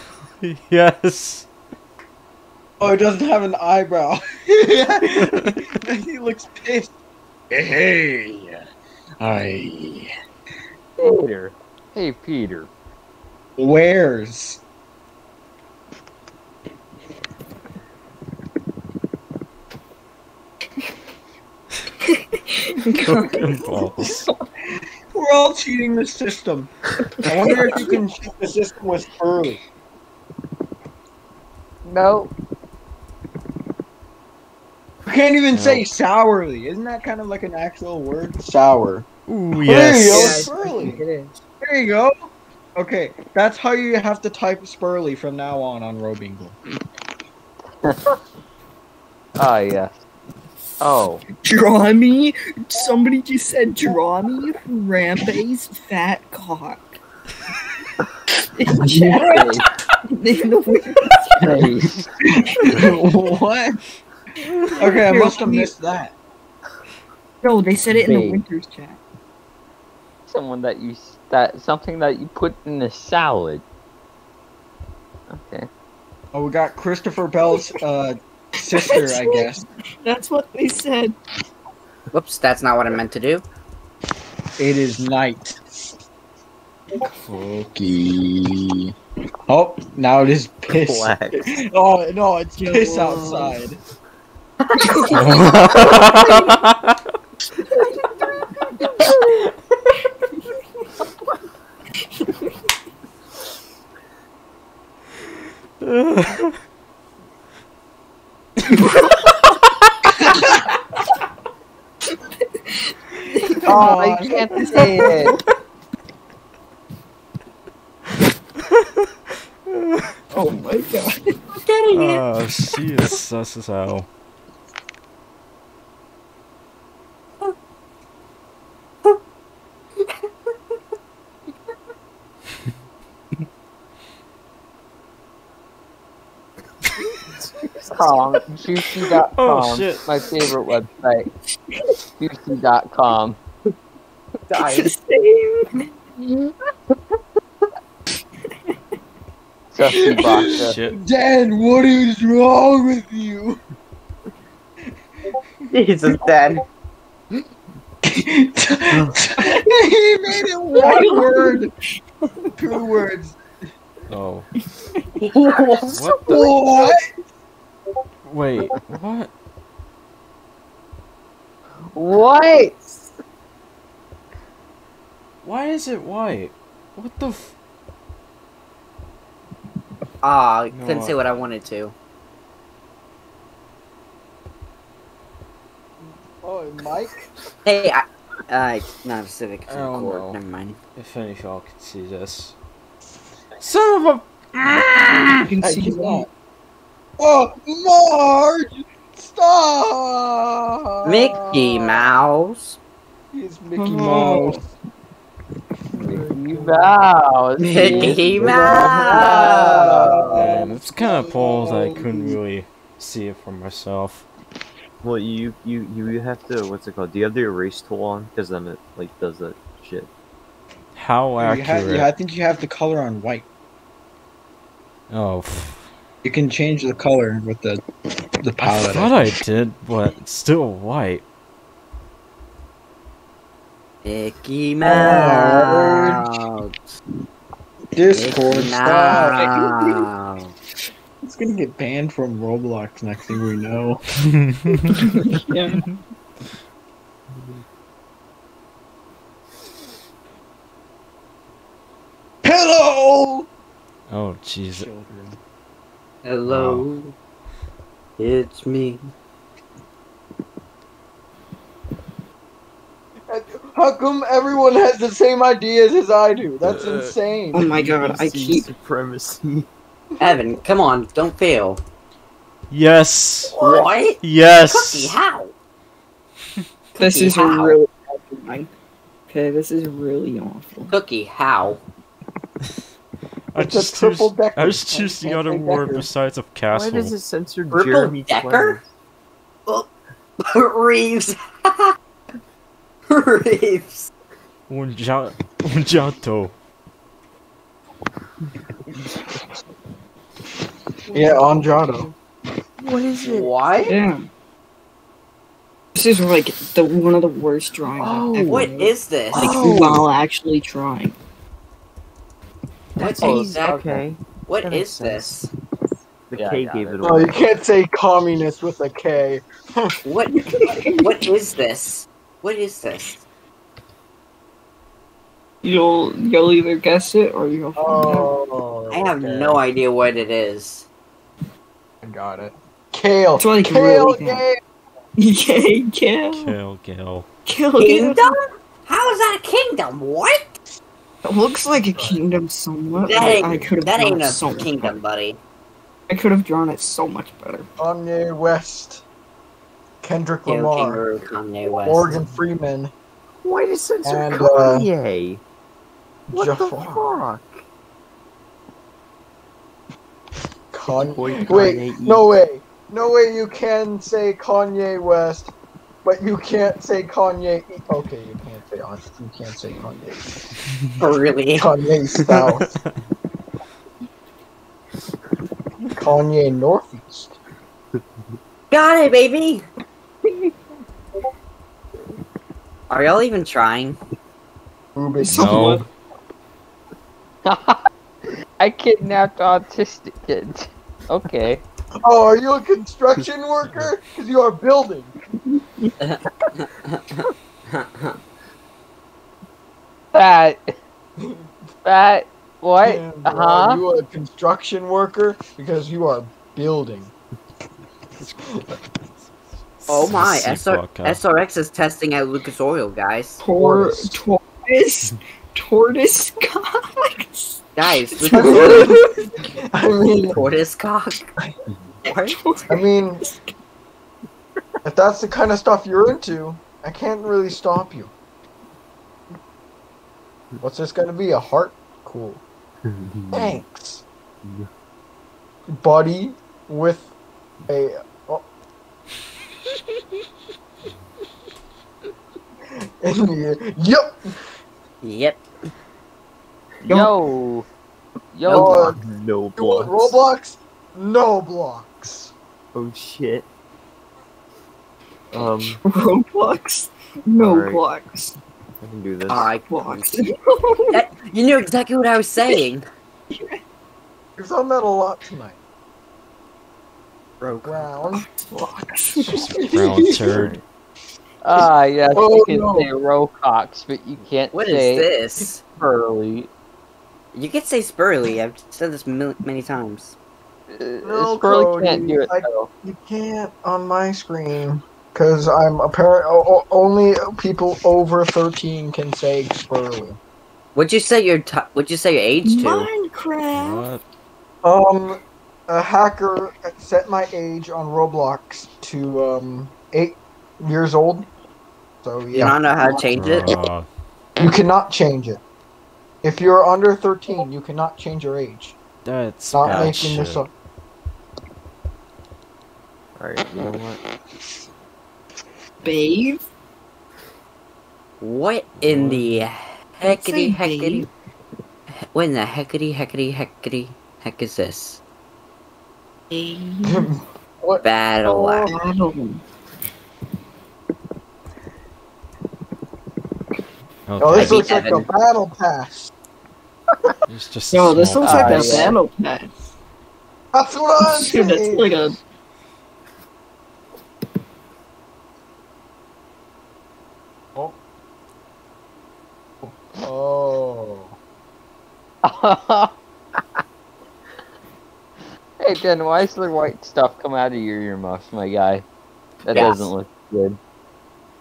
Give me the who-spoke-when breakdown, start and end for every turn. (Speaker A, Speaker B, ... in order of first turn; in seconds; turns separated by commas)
Speaker A: 0.4-1.5, Speaker B: 2.8-6.9, Speaker A: 5.1-5.6, Speaker B: 7.5-8.6, Speaker B: 9.2-10.1, Speaker C: 11.0-12.7, Speaker B: 13.6-14.6, Speaker D: 22.0-24.4, Speaker A: 23.0-24.3, Speaker B: 25.1-29.6, Speaker D: 27.2-27.9, Speaker C: 31.8-32.3, Speaker B: 35.0-39.1, Speaker A: 35.5-35.9, Speaker A: 39.3-40.5, Speaker B: 39.6-41.0, Speaker E: 40.0-41.4, Speaker B: 41.6-46.5, Speaker C: 47.8-48.1, Speaker C: 49.4-50.0, Speaker C: 50.8-51.2, Speaker D: 51.4-57.0, Speaker D: 58.5-61.4, Speaker C: 58.8-59.6, Speaker C: 61.4-62.1, Speaker B: 62.4-63.8, Speaker D: 64.7-65.7, Speaker B: 64.8-66.1, Speaker D: 67.4-69.0, Speaker C: 67.9-68.4, Speaker C: 70.3-73.6, Speaker C: 75.3-75.7, Speaker B: 76.3-79.7, Speaker D: 77.5-77.8, Speaker D: 78.7-79.5, Speaker D: 80.0-81.2, Speaker E: 82.1-83.4, Speaker B: 84.6-85.6, Speaker B: 87.1-88.9, Speaker B: 89.5-93.8, Speaker F: 90.7-91.5, Speaker D: 92.6-93.6, Speaker D: 94.7-96.5, Speaker E: 94.9-95.9, Speaker A: 95.1-97.0, Speaker D: 97.6-99.4, Speaker A: 105.8-106.5, Speaker D: 108.6-109.5, Speaker D: 110.2-110.7, Speaker D: 112.7-115.5, Speaker B: 113.4-114.8, Speaker C: 113.7-115.3, Speaker D: 120.3-122.2, Speaker A: 121.9-124.1, Speaker F: 137.3-138.2, Speaker C: 137.9-141.3, Speaker A: 139.3-140.1, Speaker C: 142.2-143.4, Speaker E: 144.5-144.9, Speaker D: 144.6-145.9, Speaker C: 149.7-150.8, Speaker B: 149.9-153.6, Speaker A: 150.5-151.0, Speaker E: 155.7-156.6, Speaker B: 158.0-161.7, Speaker D: 159.4-159.7, Speaker D: 160.7-161.7, Speaker B: 162.6-163.4, Speaker A: 164.1-164.5, Speaker E: 165.2-166.0, Speaker B: 165.3-167.0, Speaker D: 165.8-166.9, Speaker A: 165.9-166.5, Speaker A: 168.2-169.3, Speaker C: 171.9-172.8, Speaker A: 175.4-177.5, Speaker E: 180.2-181.9, Speaker A: 180.7-181.2, Speaker B: 186.0-187.3, Speaker E: 187.6-190.8, Speaker A: 189.7-190.4, Speaker A: 190.9-192.5, Speaker A: 193.6-194.6, Speaker E: 194.7-195.3, Speaker D: 195.4-196.3, Speaker B: 195.6-196.3, Speaker B: 197.2-201.9, Speaker E: 201.0-202.8, Speaker B: 203.3-204.6, Speaker D: 203.8-204.6, Speaker F: 205.9-206.9, Speaker C: 206.0-210.2, Speaker E: 207.6-210.2, Speaker F: 207.9-208.5, Speaker B: 208.3-211.4, Speaker A: 210.3-214.3, Speaker D: 211.1-212.4, Speaker F: 215.0-220.1, Speaker A: 220.9-222.1, Speaker B: 221.4-223.5, Speaker A: 225.1-225.9, Speaker B: 226.2-227.8, Speaker B: 228.4-229.4, Speaker A: 228.6-231.2, Speaker E: 234.0-236.7, Speaker B: 234.8-236.2, Speaker B: 237.9-240.0, Speaker E: 238.1-240.5, Speaker B: 241.2-244.0, Speaker A: 244.2-245.0, Speaker D: 245.1-245.8, Speaker B: 252.4-253.5, Speaker A: 254.1-254.9, Speaker B: 254.7-255.4, Speaker E: 256.2-257.1, Speaker A: 256.5-256.9, Speaker E: 258.2-259.0, Speaker B: 263.3-267.7, Speaker A: 266.6-267.1, Speaker D: 267.5-268.7, Speaker F: 267.7-269.7, Speaker E: 270.2-271.8, Speaker A: 272.7-273.6, Speaker E: 273.6-275.5, Speaker F: 273.6-273.9, Speaker A: 274.2-275.2, Speaker D: 277.0-278.7, Speaker E: 277.0-277.8, Speaker D: 279.3-280.9, Speaker E: 280.9-281.8, Speaker A: 283.5-287.1, Speaker B: 283.6-286.1, Speaker F: 286.7-288.9, Speaker E: 287.7-288.8, Speaker E: 290.4-291.9, Speaker E: 293.1-294.1, Speaker A: 294.7-296.5, Speaker B: 301.1-302.1, Speaker D: 301.2-301.6, Speaker F: 302.8-303.5, Speaker E: 303.2-304.0, Speaker D: 303.9-304.3, Speaker D: 305.9-311.1, Speaker F: 308.0-308.7, Speaker E: 308.4-309.7, Speaker F: 309.3-310.0, Speaker E: 313.0-313.9, Speaker F: 313.0-315.3, Speaker C: 313.2-314.0, Speaker E: 314.5-315.5, Speaker F: 316.3-317.4, Speaker C: 316.3-317.3, Speaker B: 317.0-320.0, Speaker E: 320.0-323.2, Speaker D: 320.3-321.3, Speaker D: 325.6-328.3, Speaker B: 327.8-329.6, Speaker E: 328.9-330.9, Speaker B: 332.0-334.6, Speaker D: 333.4-334.4, Speaker D: 335.2-336.6, Speaker A: 336.3-337.3, Speaker D: 337.4-338.3, Speaker E: 337.8-340.5, Speaker D: 341.2-344.9, Speaker B: 341.9-342.2, Speaker E: 343.1-345.4, Speaker D: 346.1-347.7, Speaker B: 347.8-349.0, Speaker B: 350.0-351.0, Speaker E: 350.5-352.2, Speaker B: 351.8-352.9, Speaker F: 353.4-355.4, Speaker B: 354.0-354.9, Speaker B: 356.3-357.2, Speaker F: 356.3-357.6, Speaker B: 360.7-365.5, Speaker F: 360.9-362.3, Speaker B: 366.0-370.5, Speaker E: 371.0-371.7, Speaker B: 371.6-372.7, Speaker B: 375.9-377.3, Speaker E: 378.7-379.6, Speaker E: 382.9-384.0, Speaker B: 384.9-385.8, Speaker D: 385.2-385.9, Speaker A: 385.3-385.8, Speaker C: 387.4-387.9, Speaker C: 388.6-391.6, Speaker B: 392.0-395.1, Speaker E: 396.0-398.1, Speaker C: 400.1-400.7, Speaker B: 401.2-401.5, Speaker C: 401.8-403.8, Speaker B: 402.8-407.1, Speaker A: 409.8-411.2, Speaker E: 409.9-413.4, Speaker D: 413.4-419.3, Speaker B: 413.5-414.2, Speaker E: 417.8-419.0, Speaker B: 418.3-419.1, Speaker B: 419.7-420.4, Speaker E: 420.3-421.2, Speaker E: 422.0-422.4, Speaker D: 422.1-423.5, Speaker B: 422.7-423.2, Speaker B: 424.8-428.1, Speaker B: 430.6-432.4, Speaker F: 432.9-433.6, Speaker B: 433.3-434.0, Speaker F: 434.4-434.7, Speaker B: 435.7-437.1, Speaker B: 437.7-438.4, Speaker B: 443.0-444.3, Speaker E: 445.0-445.4, Speaker C: 446.8-447.7, Speaker D: 446.9-447.2, Speaker C: 448.3-448.9, Speaker B: 448.5-449.0, Speaker F: 448.5-450.2, Speaker B: 449.6-452.3, Speaker F: 452.7-453.5, Speaker F: 455.3-455.8, Speaker D: 455.8-458.4, Speaker F: 457.4-457.8, Speaker F: 458.8-459.5, Speaker E: 459.3-460.2, Speaker D: 459.7-461.1, Speaker E: 460.9-462.8, Speaker D: 463.3-463.6, Speaker B: 464.4-465.6, Speaker F: 467.4-468.1, Speaker B: 467.6-468.3, Speaker D: 468.5-469.6, Speaker B: 469.2-470.5, Speaker A: 469.6-470.6, Speaker F: 470.2-470.6, Speaker C: 471.4-475.1, Speaker B: 472.1-472.9, Speaker E: 474.5-475.6, Speaker C: 475.8-476.5, Speaker E: 477.3-480.1, Speaker C: 480.7-482.7, Speaker B: 481.0-490.2, Speaker E: 490.7-492.9, Speaker D: 492.4-493.9, Speaker A: 493.5-494.0, Speaker B: 494.6-501.3, Speaker B: 502.0-502.6, Speaker E: 502.3-503.5, Speaker A: 503.1-503.9, Speaker B: 504.4-505.4, Speaker B: 506.2-508.8, Speaker A: 509.0-510.4, Speaker B: 509.5-510.5, Speaker F: 513.1-514.0, Speaker D: 515.8-516.4, Speaker E: 518.2-521.1, Speaker A: 518.8-519.4, Speaker D: 520.0-521.1, Speaker E: 522.0-525.0, Speaker D: 526.3-527.1, Speaker B: 526.9-527.8, Speaker E: 527.8-528.7, Speaker D: 528.2-529.4, Speaker A: 534.1-534.8, Speaker B: 534.2-536.1, Speaker E: 534.3-535.1, Speaker A: 537.3-538.9, Speaker D: 537.7-539.7, Speaker C: 538.2-539.0, Speaker B: 540.5-542.1, Speaker D: 541.0-542.2, Speaker B: 547.5-547.8, Speaker B: 549.6-551.1, Speaker C: 552.2-553.6, Speaker C: 555.6-558.9, Speaker C: 559.4-560.6, Speaker E: 559.5-559.9